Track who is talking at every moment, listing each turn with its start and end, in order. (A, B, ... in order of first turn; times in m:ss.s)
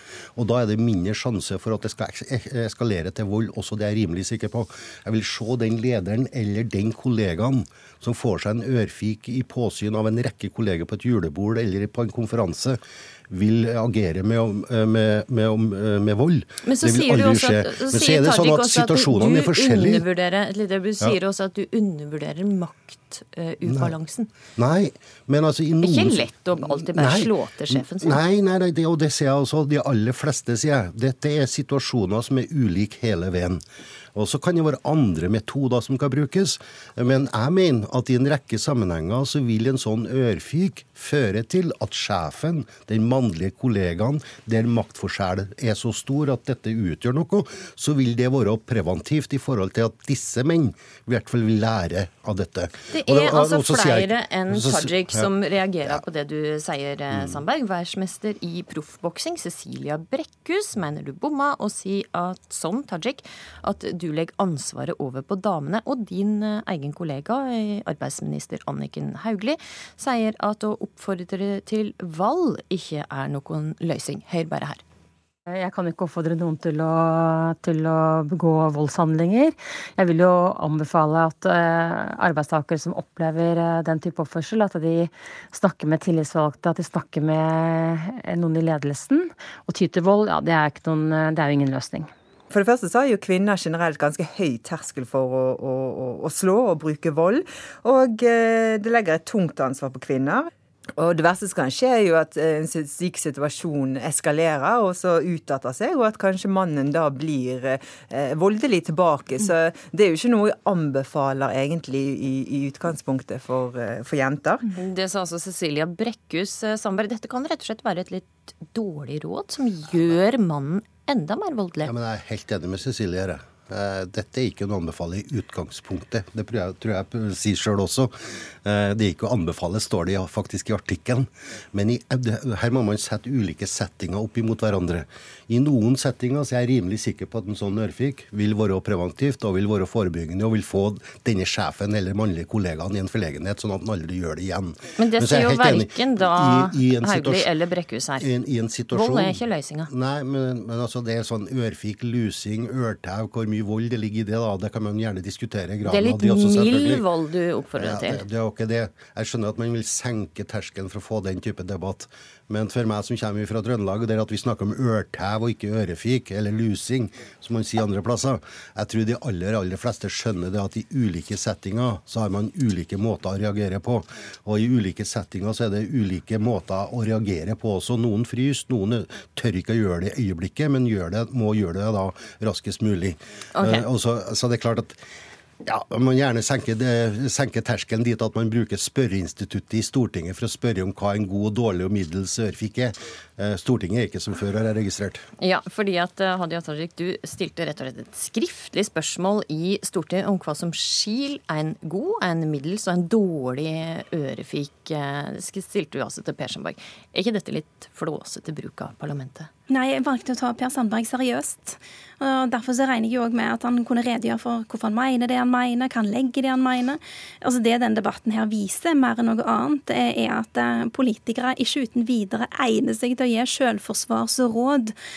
0:00.4-0:20.1 A
0:16.6-0:24.3 B
0:23.7-0:24.0 A
0:24.6-0:33.6 A
0:25.8-0:28.2 B
0:34.2-0:55.3 A
0:52.9-1:14.8 B
0:57.1-0:57.4 A
1:15.5-1:32.1 C
1:32.5-1:54.7 D
1:54.8-2:01.9 B
2:01.8-2:08.1 A
2:08.6-2:27.5 A
2:25.0-2:28.3 B
2:28.2-2:37.1 A
2:28.9-2:29.9 B
2:35.8-2:38.2 B
2:37.8-3:05.0 A
3:03.6-3:03.9 B
3:05.6-3:15.2 A
3:15.4-3:29.5 B
3:29.7-3:45.0 E